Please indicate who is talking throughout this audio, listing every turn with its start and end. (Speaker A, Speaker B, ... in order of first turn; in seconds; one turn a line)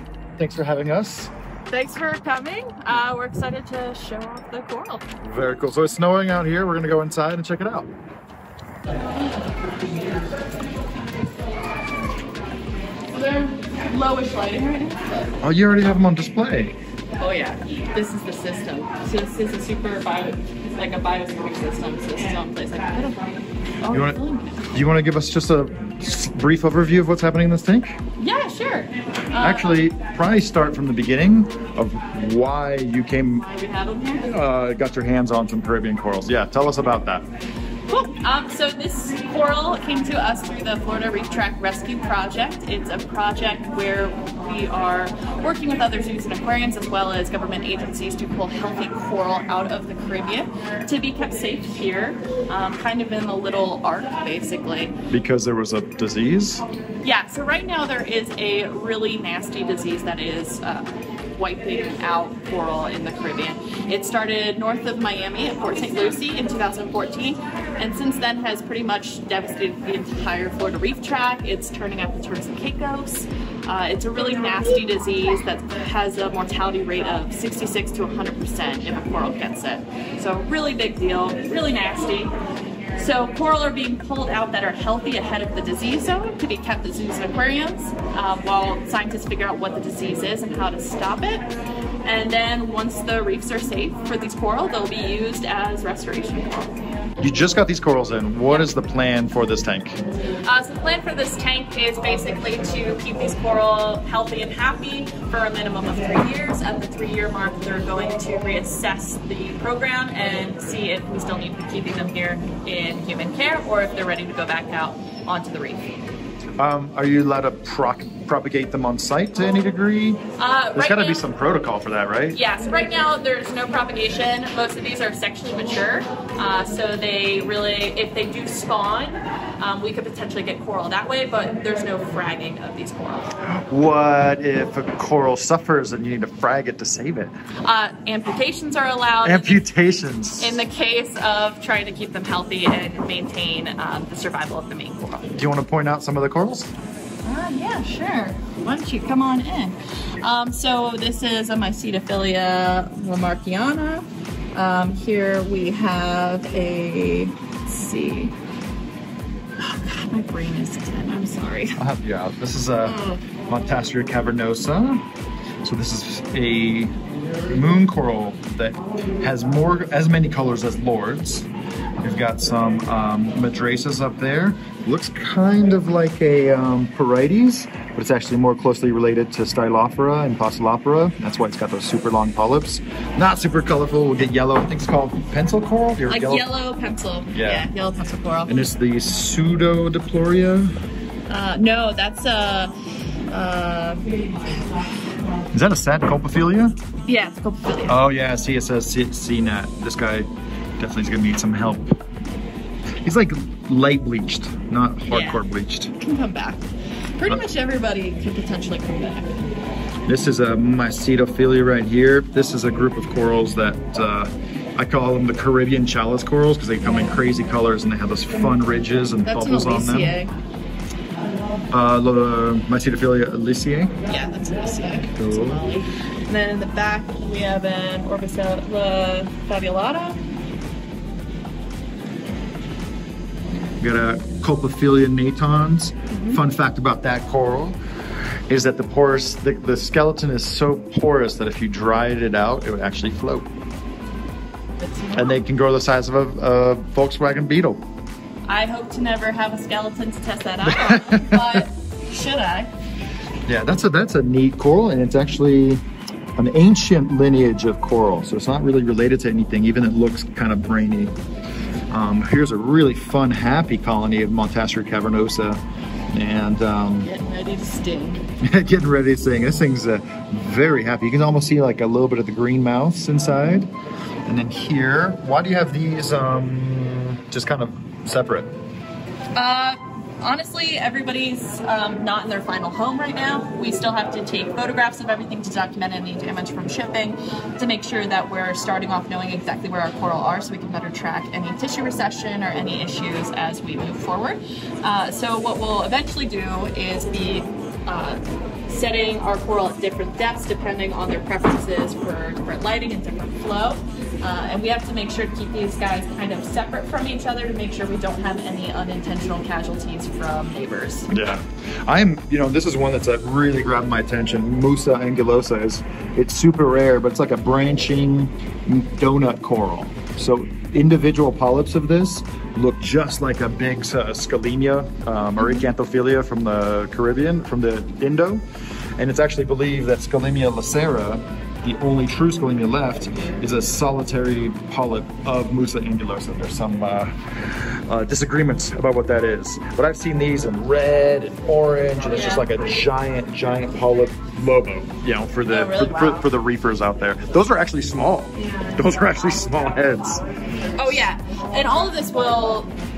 Speaker A: 0.4-1.3
Speaker B: 1.7-5.0
Speaker A: 5.2-7.9
Speaker B: 13.1-15.4
Speaker A: 15.4-16.8
Speaker B: 17.2-24.7
Speaker A: 23.9-24.2
Speaker A: 24.7-28.0
Speaker B: 28.2-29.8
Speaker A: 29.4-33.5
Speaker B: 33.4-34.3
Speaker A: 34.2-37.2
Speaker B: 37.9-54.9
Speaker A: 55.1-56.6
Speaker B: 57.0-82.3
Speaker B: 82.9-91.5
Speaker B: 92.0-96.7
Speaker A: 97.2-100.0
Speaker B: 100.4-115.9
Speaker A: 116.6-120.2
Speaker B: 120.4-121.2
Speaker A: 120.7-122.4
Speaker B: 122.3-133.3
Speaker A: 133.4-137.3
Speaker B: 137.6-139.7
Speaker A: 139.2-140.6
Speaker B: 140.4-145.3
Speaker A: 145.3-146.7
Speaker B: 147.2-158.3
Speaker B: 159.6-161.8
Speaker A: 161.8-165.0
Speaker B: 162.8-163.2
Speaker A: 165.6-171.5
Speaker A: 172.0-186.4
Speaker B: 186.1-188.6
Speaker A: 187.3-187.7
Speaker A: 188.5-190.7
Speaker B: 191.3-192.7
Speaker B: 193.3-194.1
Speaker A: 195.5-196.8
Speaker B: 197.1-198.0
Speaker A: 197.9-201.9
Speaker A: 203.0-205.9
Speaker B: 205.1-205.4
Speaker B: 206.0-206.6
Speaker B: 207.2-209.4
Speaker A: 210.1-220.2
Speaker B: 219.2-220.3
Speaker A: 221.7-223.9
Speaker B: 224.1-230.2
Speaker A: 225.2-225.6
Speaker A: 233.8-237.8
Speaker B: 236.1-236.4
Speaker A: 238.5-243.5
Speaker B: 244.8-245.4
Speaker A: 245.2-247.8
Speaker B: 248.5-252.7
Speaker A: 250.6-251.6
Speaker A: 253.5-255.8
Speaker A: 256.4-261.1
Speaker A: 261.9-265.6
Speaker A: 266.1-267.1
Speaker B: 267.0-268.2
Speaker A: 268.4-273.7
Speaker A: 274.3-278.5
Speaker B: 279.3-311.1
Speaker A: 311.1-328.4
Speaker A: 329.0-350.2
Speaker B: 342.1-342.4
Speaker B: 345.5-346.3
Speaker B: 350.7-352.7